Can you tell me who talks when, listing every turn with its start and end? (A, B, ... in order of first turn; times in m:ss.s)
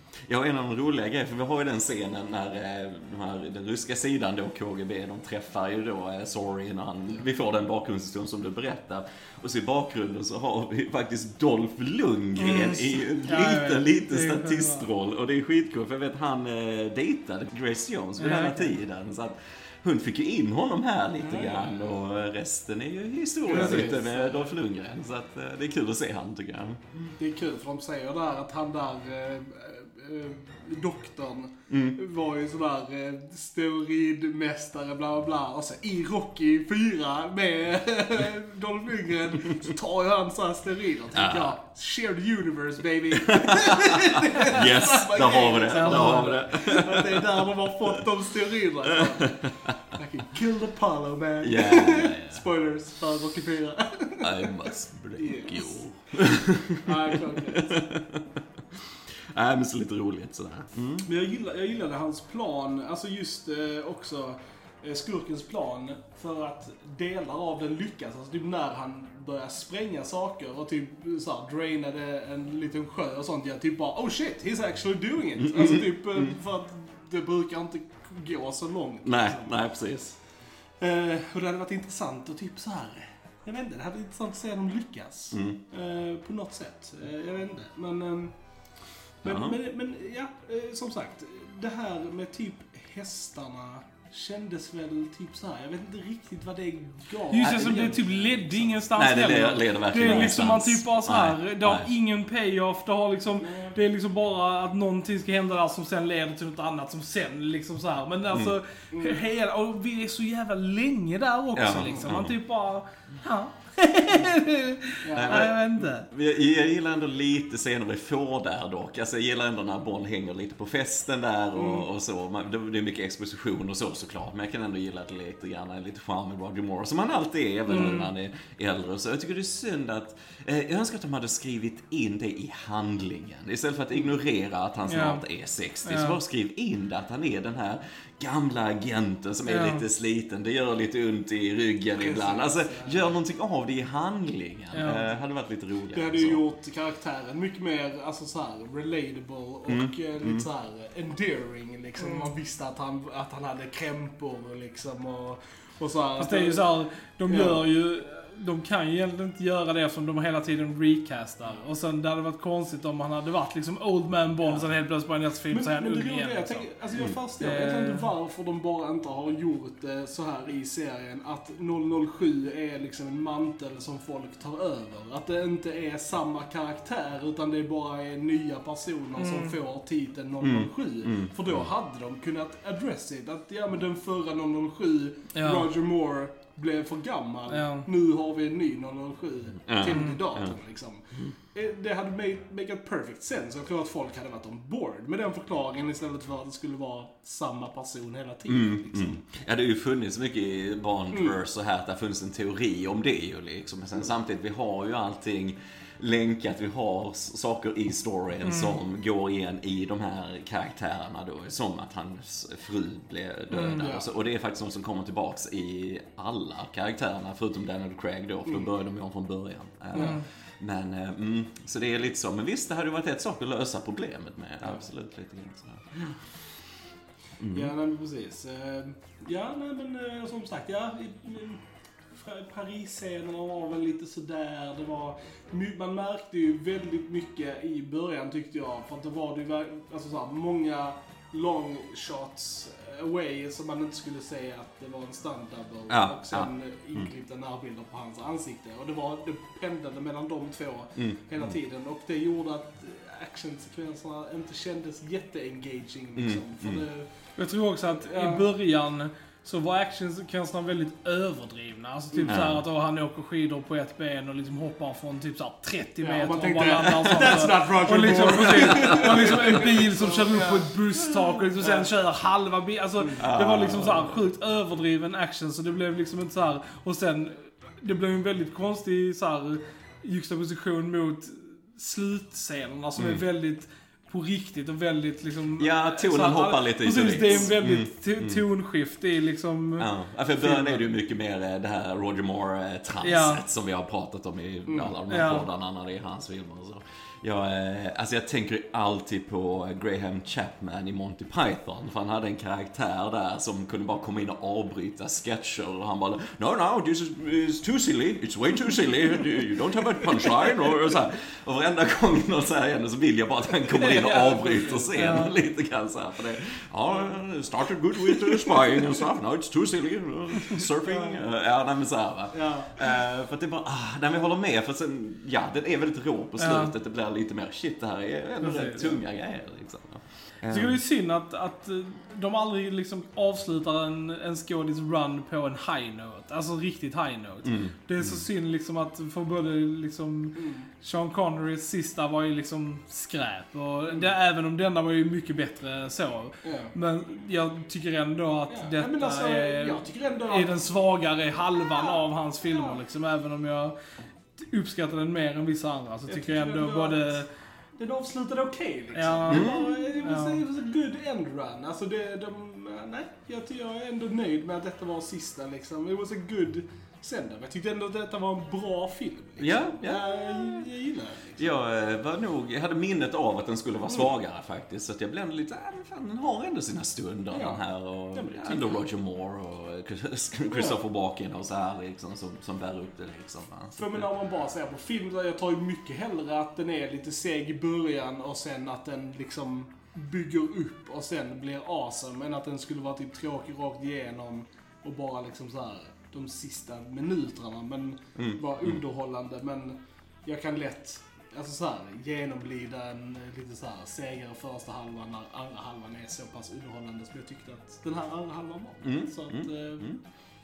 0:00.3-0:26.8 A
0:12.4-0:14.9 B
0:18.2-0:18.8 B
0:21.2-0:21.9 C
0:23.4-0:24.5 C
0:23.5-0:23.9 B
0:27.2-0:54.6 C
0:31.7-0:32.0 A
0:41.1-0:41.6 A
0:43.3-0:47.5 A
0:45.7-0:46.4 B
0:49.1-0:49.8 A
0:51.4-0:52.4 A
0:54.2-1:01.1 A
0:55.2-0:55.8 C
0:56.8-0:57.9 C
1:01.0-1:19.6 C
1:15.4-1:16.4 A
1:19.0-1:20.2 A
1:20.8-1:28.4 C
1:25.3-1:25.6 A
1:29.2-1:38.8 C
1:29.2-1:29.6 A
1:37.3-1:56.1 B
1:37.4-1:38.0 A
1:38.9-1:41.9 A
1:40.0-1:40.3 C
1:43.4-1:43.8 C
1:48.9-1:49.2 C
1:51.5-1:52.4 A
1:55.0-1:55.5 C
1:55.2-2:26.4 A
2:01.6-2:01.9 C
2:07.7-2:08.1 B
2:14.9-2:15.2 B
2:15.8-2:16.2 B
2:19.5-2:19.9 B
2:22.0-2:23.2 C
2:24.7-2:25.1 B
2:25.9-2:36.6 C
2:29.7-2:30.5 A
2:32.0-2:32.3 B
2:36.2-2:46.7 B
2:37.3-2:37.6 C
2:45.5-3:19.2 C
2:47.4-2:48.1 B
2:59.2-2:59.6 B
3:00.4-3:01.7 A
3:05.4-3:05.7 B
3:07.5-3:07.9 B
3:09.7-3:10.6 A
3:09.9-3:10.2 B
3:18.5-3:46.2 A
3:21.1-3:21.4 C
3:28.4-3:28.8 B
3:33.5-3:33.9 B
3:33.7-3:34.1 C
3:39.9-3:40.2 C
3:40.0-3:40.2 B
3:47.4-3:47.7 A
3:47.4-3:51.6 C
3:52.1-4:17.1 C
4:05.9-4:07.1 A
4:11.0-4:11.6 A
4:16.2-4:16.8 A
4:17.4-4:50.8 B
4:17.9-4:18.5 C
4:22.1-4:22.5 C
4:22.3-4:22.6 A
4:26.0-4:30.7 C
4:28.7-4:29.4 A
4:31.1-4:31.4 A
4:31.6-4:31.9 C
4:33.0-4:33.3 C
4:33.2-4:34.2 A
4:43.0-4:43.2 A
4:45.6-4:48.4 A
4:49.8-5:30.8 A
4:53.0-4:53.4 B
4:54.7-4:55.0 C
4:55.1-4:55.5 B
5:13.8-5:15.4 B
5:20.8-5:21.2 C
5:22.3-5:22.8 C
5:26.4-5:26.7 B
5:28.4-5:29.0 B
5:30.5-5:53.8 B
5:37.4-5:38.3 A
5:40.4-5:40.7 C
5:46.4-5:46.7 C
5:48.5-5:50.6 C
5:51.6-5:52.8 C
5:54.4-5:57.3 B
5:56.1-5:57.2 C
5:57.8-6:11.6 C
5:59.0-6:00.4 B
5:59.3-5:59.7 A
6:09.4-6:10.7 A
6:11.4-6:24.1 A
6:17.3-6:18.8 C
6:20.5-6:20.8 C
6:23.8-6:49.9 C
6:38.2-6:38.8 A
6:48.8-6:50.0 A